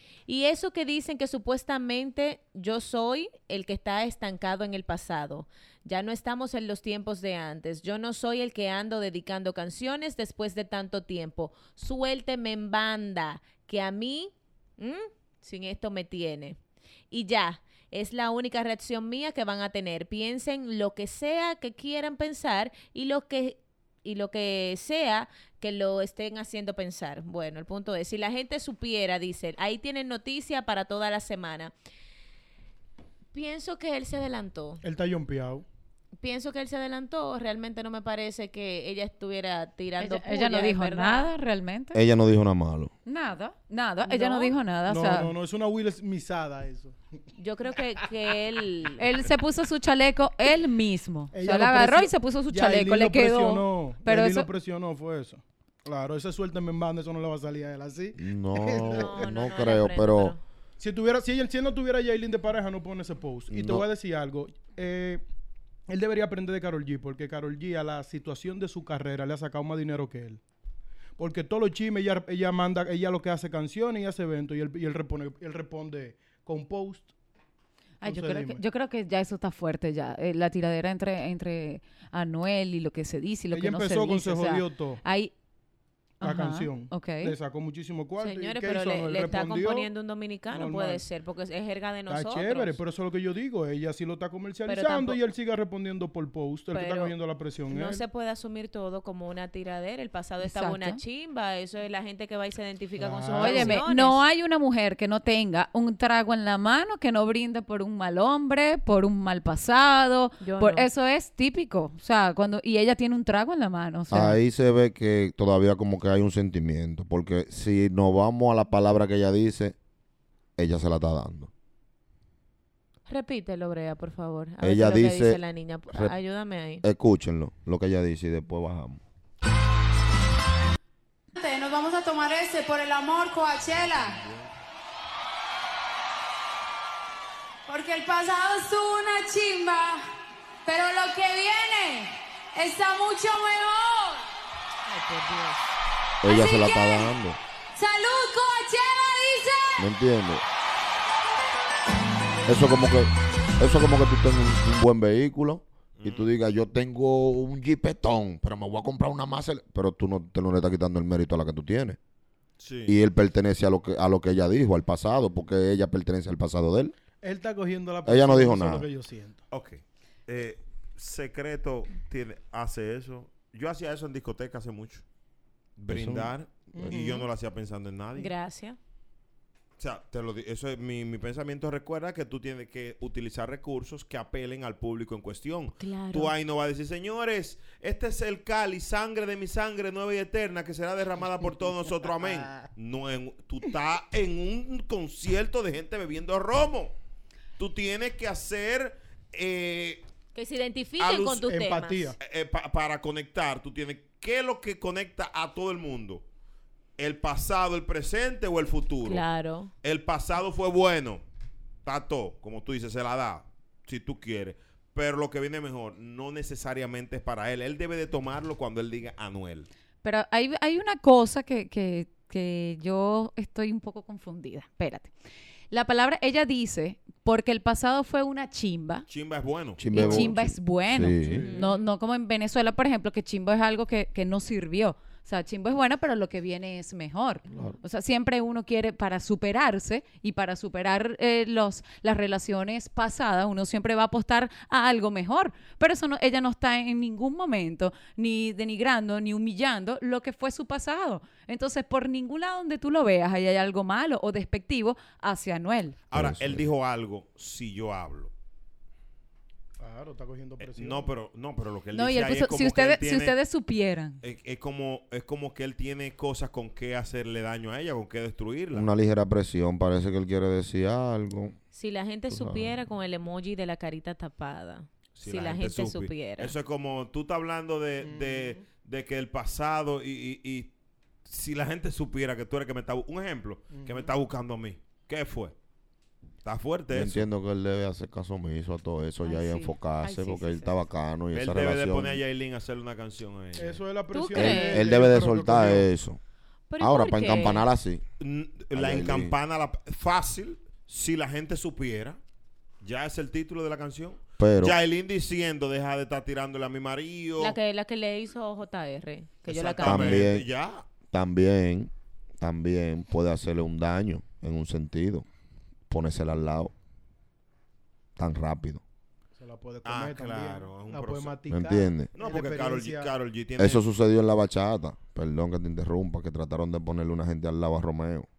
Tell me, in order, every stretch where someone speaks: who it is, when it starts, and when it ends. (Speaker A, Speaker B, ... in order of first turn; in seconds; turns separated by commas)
Speaker A: 0.3-16.6, Speaker A: 17.1-31.7, Speaker A: 33.3-34.8, Speaker B: 34.8-35.6, Speaker A: 36.2-41.3, Speaker C: 40.0-42.0, Speaker D: 41.9-42.9, Speaker C: 43.1-45.3, Speaker A: 44.1-44.5, Speaker B: 44.9-47.0, Speaker A: 47.4-49.0, Speaker C: 49.0-54.5, Speaker B: 51.3-59.3, Speaker D: 58.2-60.4, Speaker A: 58.9-60.4, Speaker B: 60.8-65.2, Speaker D: 63.5-63.9, Speaker B: 65.9-70.4, Speaker B: 71.2-77.1, Speaker C: 78.0-85.3, Speaker B: 78.0-78.6, Speaker B: 83.5-85.0, Speaker C: 86.2-87.3, Speaker B: 86.2-89.9, Speaker A: 88.2-92.8, Speaker B: 90.5-91.0, Speaker B: 92.1-98.0, Speaker A: 94.7-95.2, Speaker A: 96.7-97.1, Speaker A: 97.7-104.2, Speaker C: 100.4-101.0, Speaker B: 103.0-103.8, Speaker C: 103.3-114.4, Speaker A: 110.4-110.9, Speaker D: 114.1-119.8, Speaker D: 120.6-121.5, Speaker A: 123.1-126.8, Speaker D: 124.6-125.4, Speaker D: 126.8-129.0, Speaker E: 131.3-134.2, Speaker F: 133.6-134.5, Speaker E: 137.7-140.0, Speaker E: 140.7-144.2, Speaker A: 144.9-145.8, Speaker D: 146.2-147.4, Speaker E: 146.2-147.1, Speaker E: 147.8-149.9, Speaker D: 149.8-150.4, Speaker D: 152.5-162.0, Speaker F: 156.0-156.3, Speaker F: 162.6-163.0, Speaker D: 162.9-166.9, Speaker B: 167.2-169.4, Speaker D: 168.1-168.9, Speaker F: 169.5-175.0, Speaker F: 175.8-178.3, Speaker D: 175.9-176.3, Speaker B: 176.7-177.3, Speaker A: 178.2-178.8, Speaker F: 179.8-196.9, Speaker A: 185.8-186.3, Speaker B: 192.1-192.7, Speaker F: 197.6-200.1, Speaker A: 200.3-202.1, Speaker F: 201.0-201.4, Speaker B: 201.5-202.2, Speaker F: 202.2-206.2, Speaker F: 207.0-209.2, Speaker A: 209.1-209.7, Speaker F: 209.8-211.2, Speaker F: 211.8-219.7, Speaker C: 220.0-225.1, Speaker C: 225.7-229.1, Speaker F: 229.1-230.2, Speaker D: 229.8-231.4, Speaker C: 229.9-256.0, Speaker B: 231.2-231.7, Speaker A: 231.4-231.8, Speaker D: 237.5-237.8, Speaker F: 256.1-258.3, Speaker D: 256.1-256.7, Speaker B: 259.8-261.1, Speaker F: 260.6-263.4, Speaker C: 261.9-264.2, Speaker F: 264.2-268.9, Speaker D: 268.7-271.6, Speaker A: 271.7-276.5, Speaker D: 272.3-272.8, Speaker F: 275.1-280.7, Speaker B: 278.0-278.6, Speaker F: 281.3-285.6, Speaker B: 283.7-284.1, Speaker F: 286.4-287.3, Speaker D: 286.9-292.2, Speaker A: 289.3-290.8, Speaker F: 291.3-293.8, Speaker B: 293.6-295.9, Speaker A: 294.1-294.9, Speaker D: 294.3-296.2, Speaker A: 296.7-297.7, Speaker D: 296.8-298.0, Speaker F: 298.2-302.2, Speaker D: 298.7-299.4, Speaker F: 302.8-307.6, Speaker D: 304.4-304.8, Speaker A: 307.4-310.2, Speaker F: 309.5-310.9, Speaker D: 309.8-310.5, Speaker D: 311.1-315.3, Speaker D: 315.9-316.7, Speaker D: 318.2-318.8, Speaker B: 319.4-323.1, Speaker F: 319.8-321.4, Speaker D: 321.5-322.1, Speaker F: 322.1-323.8, Speaker D: 323.6-328.3